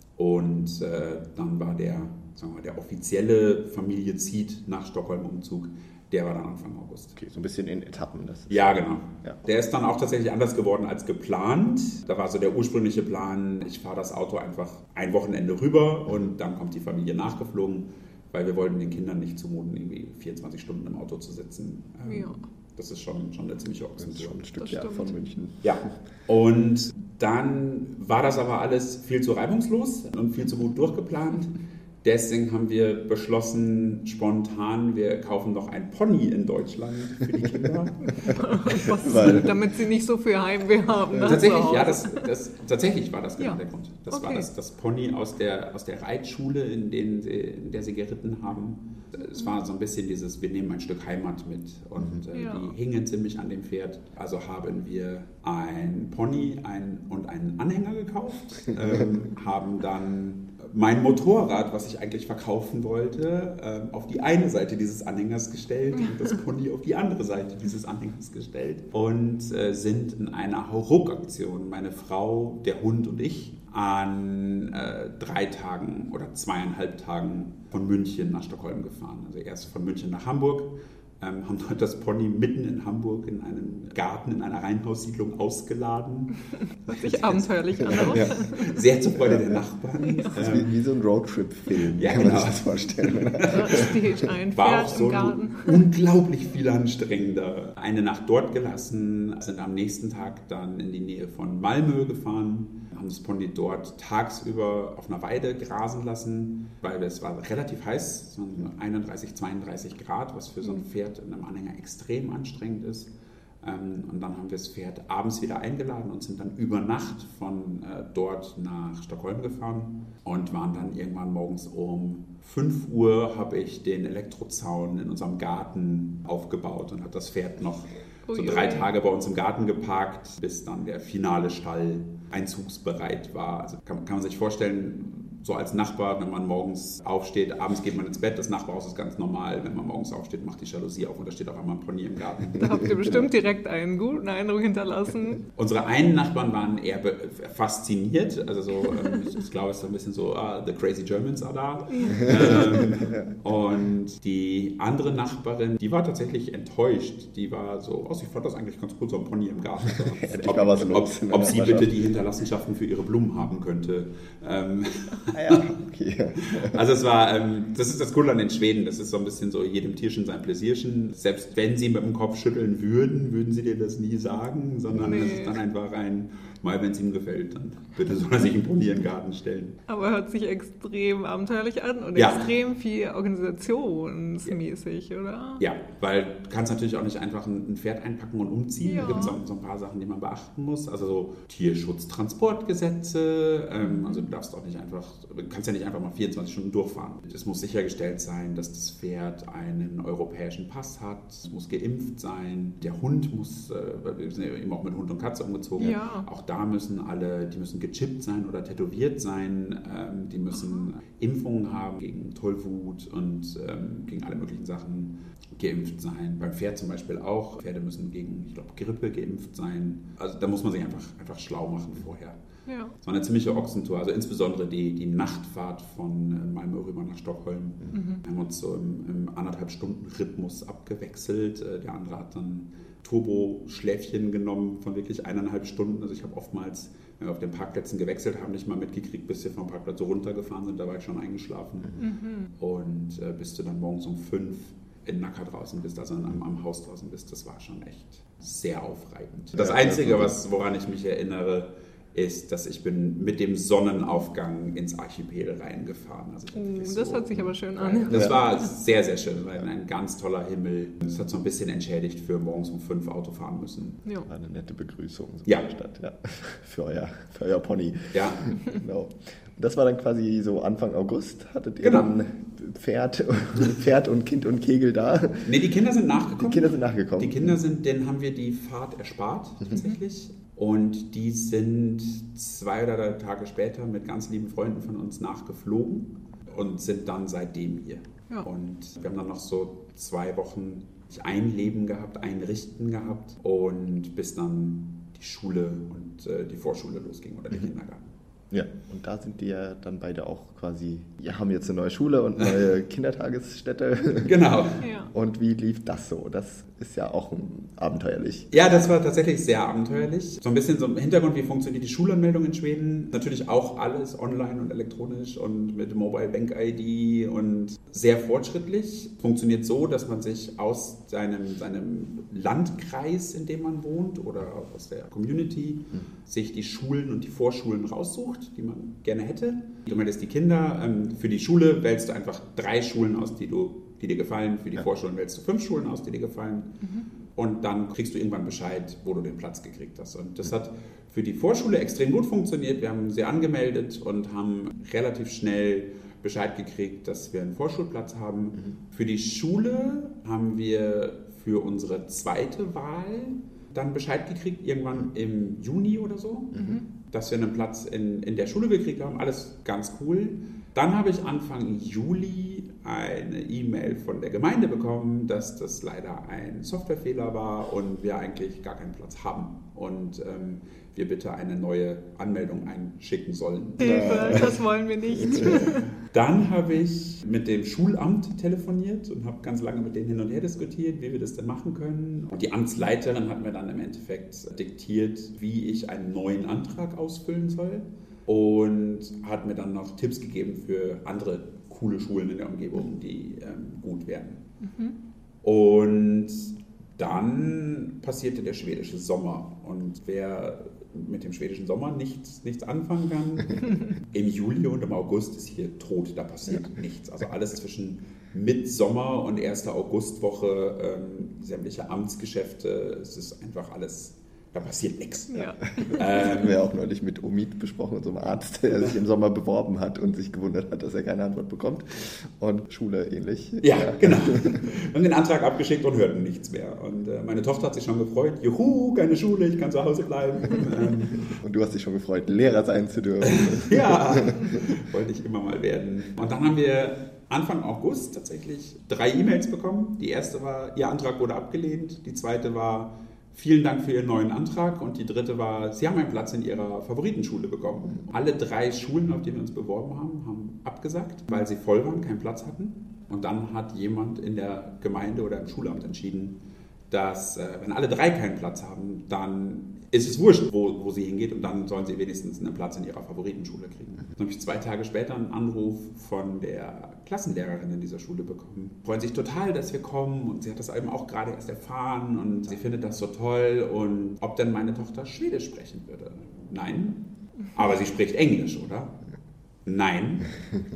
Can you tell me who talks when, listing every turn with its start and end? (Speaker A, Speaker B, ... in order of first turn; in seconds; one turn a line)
Speaker A: 0.2-7.2
Speaker B: 7.2-9.4
Speaker A: 8.5-24.4
Speaker C: 22.1-22.4
Speaker B: 24.0-25.9
Speaker C: 24.6-25.1
Speaker A: 25.6-39.5
Speaker C: 38.2-42.3
Speaker B: 38.9-39.5
Speaker A: 41.2-90.8
Speaker C: 43.4-44.5
Speaker C: 52.3-52.7
Speaker C: 86.6-88.8
Speaker B: 87.8-88.5
Speaker B: 89.2-89.6
Speaker C: 90.0-90.4
Speaker B: 90.3-94.0
Speaker A: 91.9-94.0
Speaker C: 93.5-95.9
Speaker A: 94.5-113.1
Speaker A: 113.6-143.3
Speaker C: 128.3-128.9
Speaker C: 142.6-145.4
Speaker A: 145.6-165.8
Speaker C: 148.8-149.2
Speaker C: 151.9-152.8
Speaker B: 152.9-153.4
Speaker B: 160.2-161.9
Speaker B: 165.3-166.8
Speaker A: 166.5-179.8
Speaker C: 175.0-175.6
Speaker C: 179.9-185.6
Speaker A: 182.2-182.5
Speaker A: 185.6-222.4
Speaker C: 188.8-189.4
Speaker C: 193.8-194.3
Speaker C: 205.8-206.3
Speaker C: 210.5-210.9
Speaker C: 222.7-222.9
Speaker A: 223.0-242.0
Speaker C: 227.9-228.2
Speaker C: 242.0-242.5
Speaker A: 242.6-264.0
Speaker B: 249.6-250.3
Speaker C: 256.5-258.7
Speaker B: 258.1-258.4
Speaker B: 264.3-275.5
Speaker A: 268.1-268.5
Speaker A: 271.8-272.1
Speaker A: 275.4-298.1
Speaker B: 276.4-277.5
Speaker B: 298.5-304.3
Speaker A: 302.4-302.7
Speaker A: 304.2-304.9
Speaker C: 304.8-305.1
Speaker B: 305.1-308.5
Speaker A: 308.5-374.6
Speaker C: 336.8-337.1
Speaker B: 356.5-356.8
Speaker C: 356.5-356.8
Speaker C: 373.8-375.9
Speaker B: 373.8-374.6
Speaker B: 375.2-375.6
Speaker A: 375.3-394.4
Speaker C: 394.6-395.0
Speaker A: 395.4-415.4
Speaker C: 403.6-403.9
Speaker C: 415.3-416.4
Speaker B: 415.3-424.7
Speaker A: 415.9-416.6
Speaker A: 423.6-431.3
Speaker B: 431.3-434.7
Speaker A: 433.2-479.0
Speaker A: 479.6-480.4